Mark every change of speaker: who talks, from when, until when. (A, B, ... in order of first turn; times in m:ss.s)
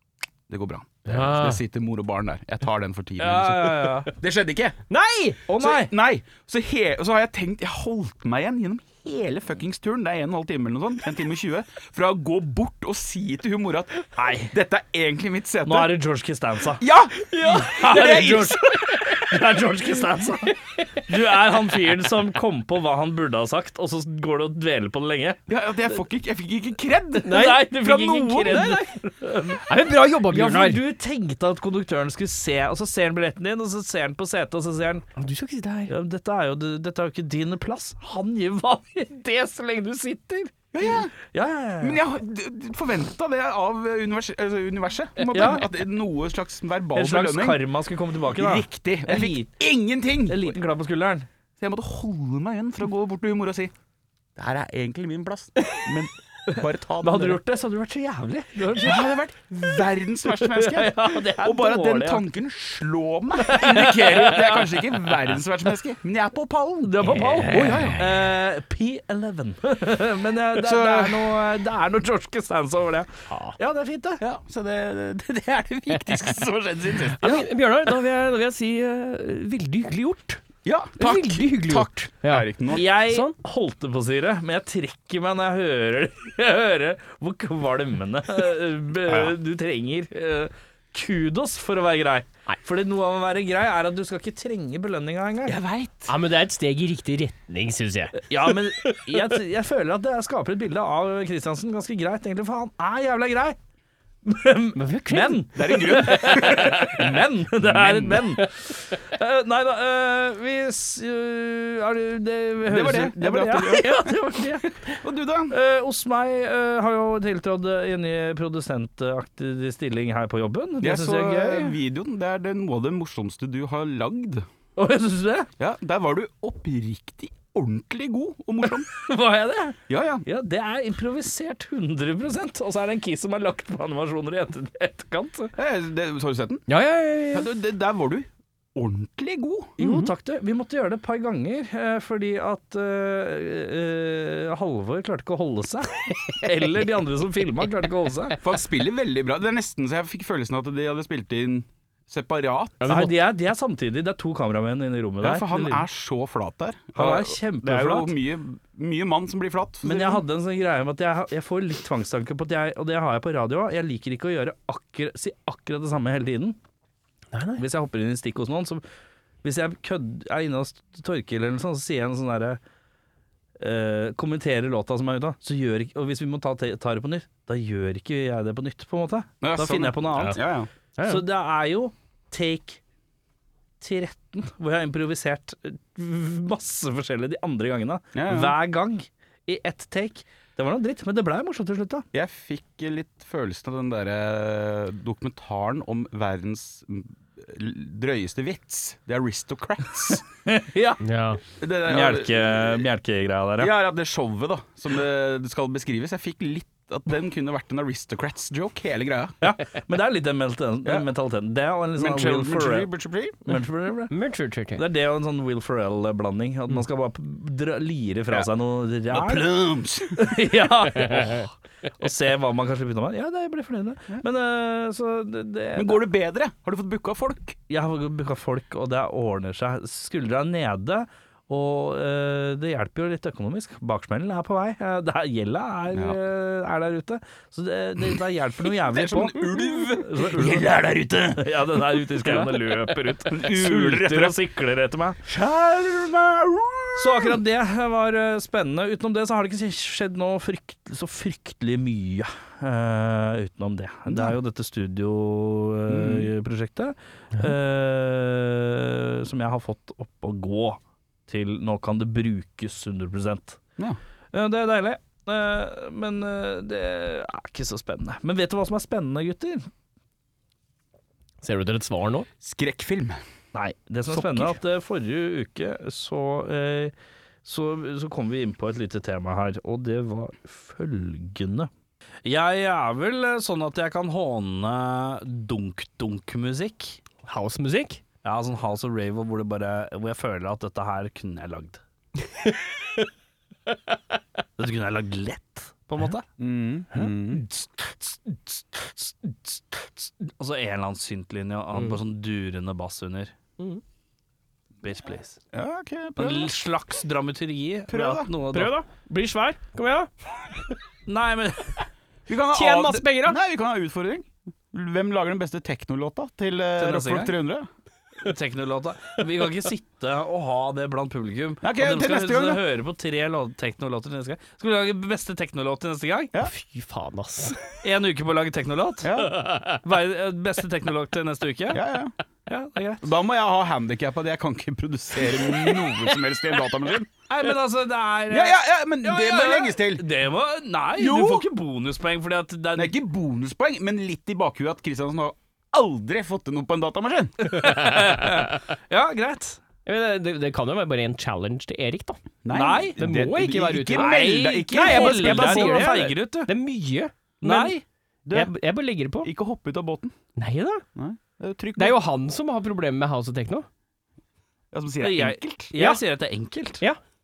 0:00.5-0:04.8 A
0:01.1-0:01.6 B
0:03.2-0:04.1 C
0:04.9-0:05.4 B
0:05.5-0:05.9 C
0:05.6-0:16.0 A
0:14.2-0:14.5 C
0:15.6-0:16.8 C
0:16.8-0:19.1 A
0:17.3-0:17.8 B
0:17.4-0:25.4 C
0:25.5-0:28.8 A
0:27.2-0:29.6 C
0:27.2-0:27.7 B
0:28.4-0:28.8 B
0:29.6-0:30.8 B
0:30.3-0:35.0 C
0:35.2-0:35.9 B
0:35.9-0:42.0 C
0:40.7-0:41.1 A
0:41.8-0:47.6 A
0:45.3-0:45.6 C
0:46.9-0:49.5 C
0:48.3-0:50.5 A
0:50.3-0:51.3 C
0:51.6-0:53.7 A
0:54.4-0:57.4 A
0:57.0-0:59.1 C
0:58.8-1:08.0 A
1:00.4-1:02.2 C
1:03.4-1:04.9 C
1:06.8-1:14.2 C
1:07.1-1:08.0 B
1:10.5-1:11.4 A
1:14.2-1:17.4 A
1:17.2-1:20.4 B
1:20.6-1:22.9 A
1:21.0-1:23.3 B
1:22.7-1:35.6 C
1:35.4-1:36.1 A
1:36.1-1:38.2 B
1:38.2-1:43.6 C
1:38.8-1:39.2 B
1:44.2-1:54.7 C
1:44.8-1:46.0 B
1:45.5-1:48.3 A
1:52.6-1:54.1 A
1:54.8-1:55.6 A
1:55.5-2:01.7 C
2:00.8-2:04.4 A
2:04.8-2:05.5 C
2:05.6-2:08.9 A
2:08.9-2:15.5 C
2:09.9-2:10.2 A
2:15.6-2:16.6 A
2:16.7-2:17.5 B
2:17.3-2:19.8 A
2:19.8-2:28.4 C
2:19.8-2:20.1 B
2:28.4-2:32.8 A
2:32.8-2:33.1 B
2:32.9-2:35.8 C
2:35.2-2:40.2 A
2:36.9-2:38.1 C
2:39.8-2:46.6 C
2:47.3-2:47.6 B
2:47.6-2:48.8 C
2:49.4-2:52.6 C
2:53.6-3:00.4 C
2:59.4-3:00.7 A
3:01.0-3:01.2 B
3:01.0-3:02.8 C
3:03.8-3:12.0 C
3:08.1-3:08.6 A
3:12.1-3:20.2 A
3:20.4-3:21.0 C
3:21.0-3:21.4 B
3:21.6-3:22.8 A
3:21.9-3:23.7 C
3:23.6-3:29.4 A
3:29.4-3:32.9 C
3:32.0-3:33.4 A
3:33.4-3:34.1 C
3:34.1-3:34.8 B
3:34.7-3:39.4 C
3:39.1-3:40.3 A
3:40.2-3:46.0 C
3:41.0-3:41.3 B
3:45.7-3:47.6 A
3:47.7-3:59.4 C
3:55.9-3:56.2 A
3:58.7-4:02.5 A
4:00.0-4:00.7 C
4:01.4-4:05.2 C
4:03.2-4:04.4 A
4:05.2-4:07.4 A
4:07.0-4:23.6 C
4:14.1-4:14.4 A
4:15.9-4:16.3 A
4:24.3-4:29.7 C
4:31.4-4:32.3 B
4:32.4-4:33.2 A
4:33.5-4:36.9 C
4:37.4-4:41.7 C
4:42.2-4:47.0 C
4:47.2-4:48.0 B
4:48.2-4:51.8 C
4:54.6-4:56.2 C
4:56.4-4:57.4 A
4:57.3-5:03.4 C
5:01.7-5:02.0 B
5:04.8-5:05.4 C
5:05.5-5:06.5 A
5:06.2-5:08.7 C
5:07.9-5:08.3 A
5:08.5-5:10.1 B
5:11.1-5:11.8 C
5:12.3-5:17.7 A
5:12.5-5:13.4 B
5:16.8-5:17.3 C
5:18.2-5:26.3 C
5:21.6-5:22.6 A
5:26.4-5:27.6 B
5:27.8-5:29.1 C
5:29.0-5:29.4 A
5:29.8-5:31.8 C
5:31.7-5:32.1 A
5:32.5-5:33.0 C
5:33.0-5:37.1 A
5:37.3-5:43.0 C
5:38.3-5:40.0 A
5:41.0-5:41.5 A
5:42.7-5:47.6 A
5:47.4-5:49.6 C
5:49.8-5:52.2 B
5:52.4-5:56.0 A
5:52.5-5:53.0 C
5:53.0-5:57.7 B
5:53.9-5:56.5 C
5:57.4-5:57.8 C
5:58.2-5:58.5 A
5:58.3-5:59.3 B
5:59.2-6:00.1 A
6:00.4-6:00.8 B
6:01.0-6:02.0 A
6:01.8-6:03.7 B
6:04.7-6:05.7 A
6:05.0-6:06.8 C